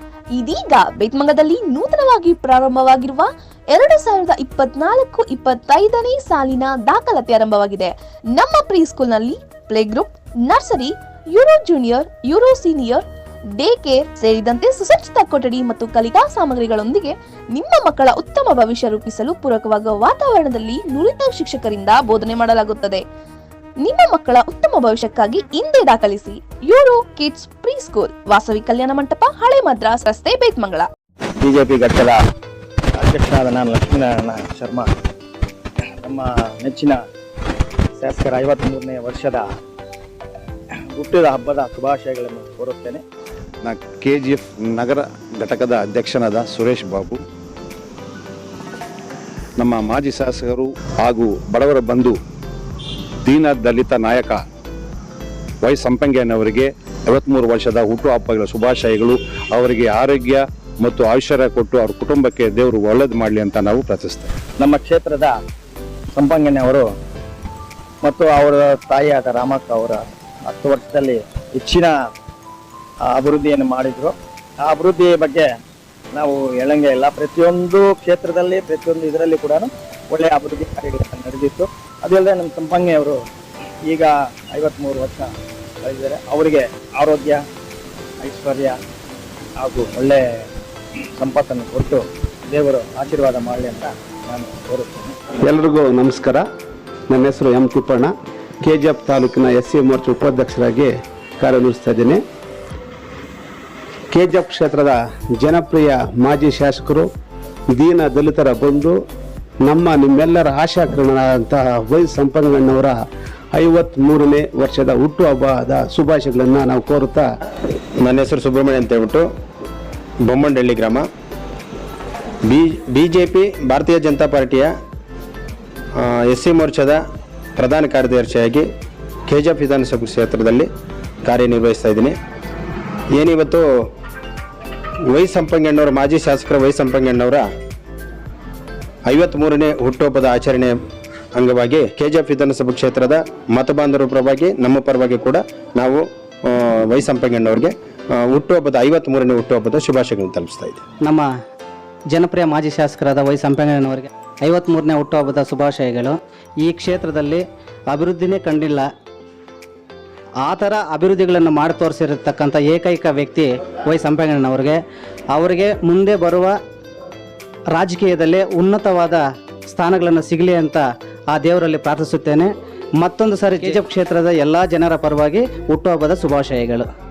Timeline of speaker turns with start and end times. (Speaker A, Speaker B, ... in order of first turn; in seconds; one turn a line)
Speaker A: 0.3-13.0
Speaker A: 13.6-23.0
Speaker A: 23.8-30.9
Speaker B: 31.5-32.1
Speaker B: 33.1-34.8
Speaker B: 36.1-36.9
Speaker B: 38.0-39.4
Speaker B: 41.0-43.0
Speaker C: 43.6-47.2
Speaker C: 49.6-52.2
Speaker C: 53.2-54.5
Speaker C: 55.6-64.3
Speaker B: 64.7-65.3
Speaker B: 66.2-66.8
Speaker B: 68.1-70.0
Speaker B: 70.6-71.0
Speaker B: 71.6-71.9
Speaker B: 73.2-74.1
Speaker B: 74.7-75.4
Speaker B: 76.2-83.2
Speaker B: 83.9-85.3
Speaker B: 85.9-87.4
Speaker B: 88.2-88.7
Speaker B: 89.6-90.2
Speaker B: 91.2-95.1
Speaker D: 95.5-96.4
Speaker D: 97.1-98.1
Speaker D: 98.6-102.2
Speaker D: 104.1-107.1
Speaker D: 107.7-109.0
Speaker D: 109.6-113.0
Speaker D: 113.5-117.2
Speaker E: 118.0-119.2
Speaker E: 120.3-121.0
Speaker E: 122.5-124.7
Speaker E: 126.0-127.0
Speaker E: 127.6-128.7
Speaker E: 129.3-130.7
Speaker E: 131.2-132.1
Speaker E: 133.2-133.7
Speaker E: 135.1-137.5
Speaker E: 139.1-140.7
Speaker E: 141.4-150.8
Speaker F: 152.1-158.9
Speaker F: 160.4-164.8
Speaker F: 165.3-166.6
Speaker F: 167.7-176.9